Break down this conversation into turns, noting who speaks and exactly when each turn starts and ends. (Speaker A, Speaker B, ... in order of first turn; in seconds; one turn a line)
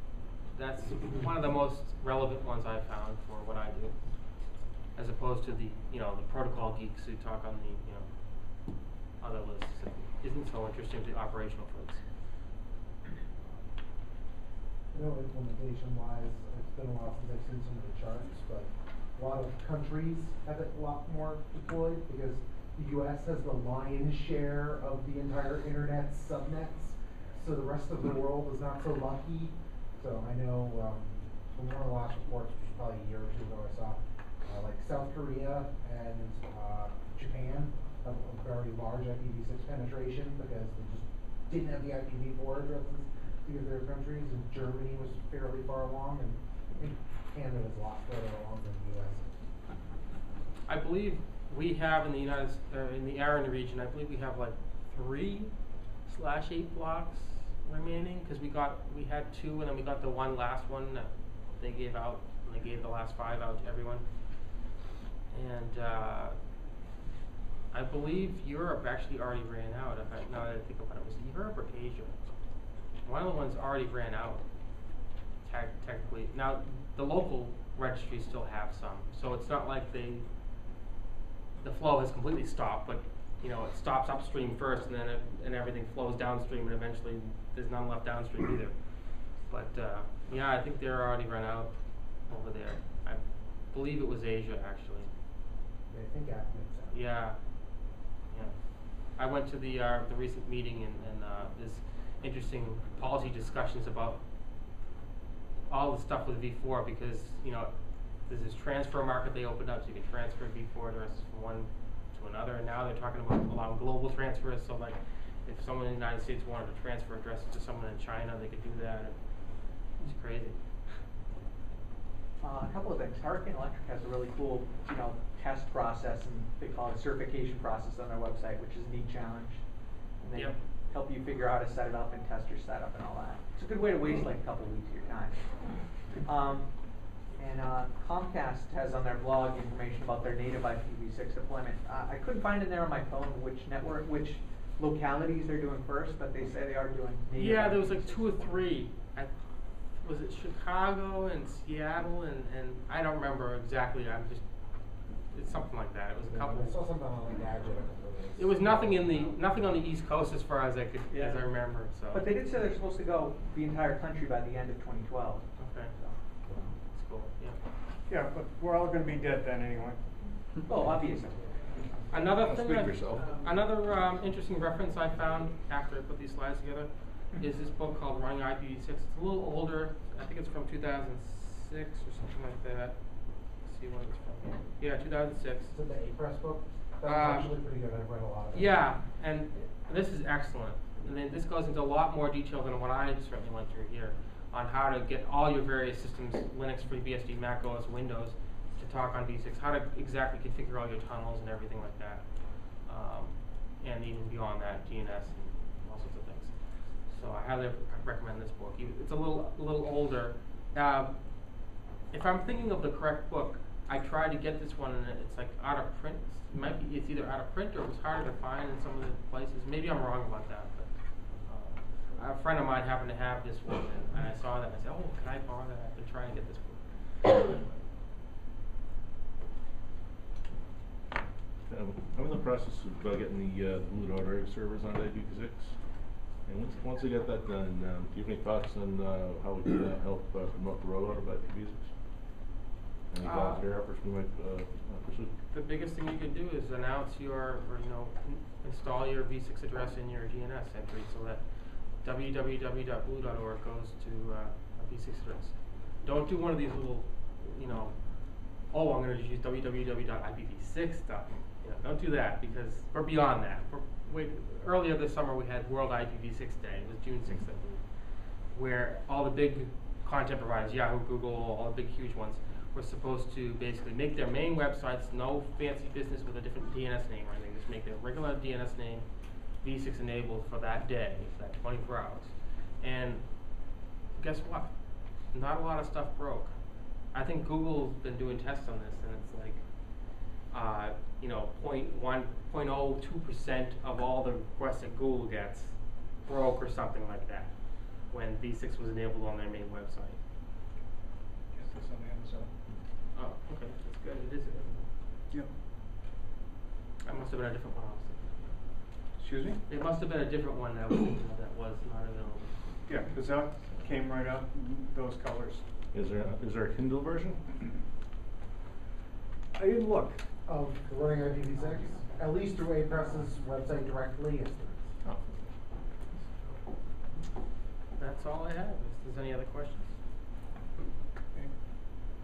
Speaker A: 0.5-4.0
Speaker A: 5.0-8.7
Speaker A: 9.2-12.0
Speaker B: 14.9-49.5
Speaker A: 50.7-55.5
Speaker A: 56.1-64.0
Speaker A: 65.3-66.4
Speaker A: 67.7-72.2
Speaker A: 73.0-74.5
Speaker A: 75.4-80.3
Speaker A: 81.6-88.8
Speaker A: 89.3-95.1
Speaker B: 95.9-97.0
Speaker A: 96.9-97.4
Speaker A: 98.3-104.2
Speaker A: 105.7-107.7
Speaker A: 108.2-121.0
Speaker C: 122.4-129.6
Speaker C: 130.2-135.5
Speaker C: 136.2-136.7
Speaker C: 137.3-148.4
Speaker A: 147.4-149.4
Speaker A: 149.9-154.4
Speaker A: 155.3-156.8
Speaker B: 156.2-159.6
Speaker A: 158.4-162.3
Speaker C: 161.1-161.5
Speaker C: 162.1-166.2
Speaker A: 165.6-165.9
Speaker A: 166.9-167.6
Speaker D: 168.1-170.0
Speaker C: 170.7-171.6
Speaker A: 172.1-185.7
Speaker E: 172.4-173.4
Speaker B: 185.7-188.8
Speaker A: 187.0-187.6
Speaker A: 188.5-211.2
Speaker A: 212.1-227.9
Speaker E: 231.7-241.9
Speaker E: 243.1-245.3
Speaker A: 243.2-243.6
Speaker A: 245.5-251.4
Speaker A: 252.0-258.0
Speaker A: 258.7-267.9
Speaker A: 268.5-279.1
Speaker A: 279.6-283.3
Speaker A: 284.2-284.7
Speaker A: 285.3-286.6
Speaker A: 287.1-289.6
Speaker A: 290.5-297.5
Speaker A: 298.1-300.2
Speaker D: 301.5-302.5
Speaker A: 303.1-304.9
Speaker A: 307.1-308.6
Speaker D: 309.2-309.6
Speaker A: 309.7-312.6
Speaker D: 312.9-315.6
Speaker E: 315.9-317.4
Speaker D: 319.5-320.2
Speaker B: 320.4-325.0
Speaker A: 328.0-330.0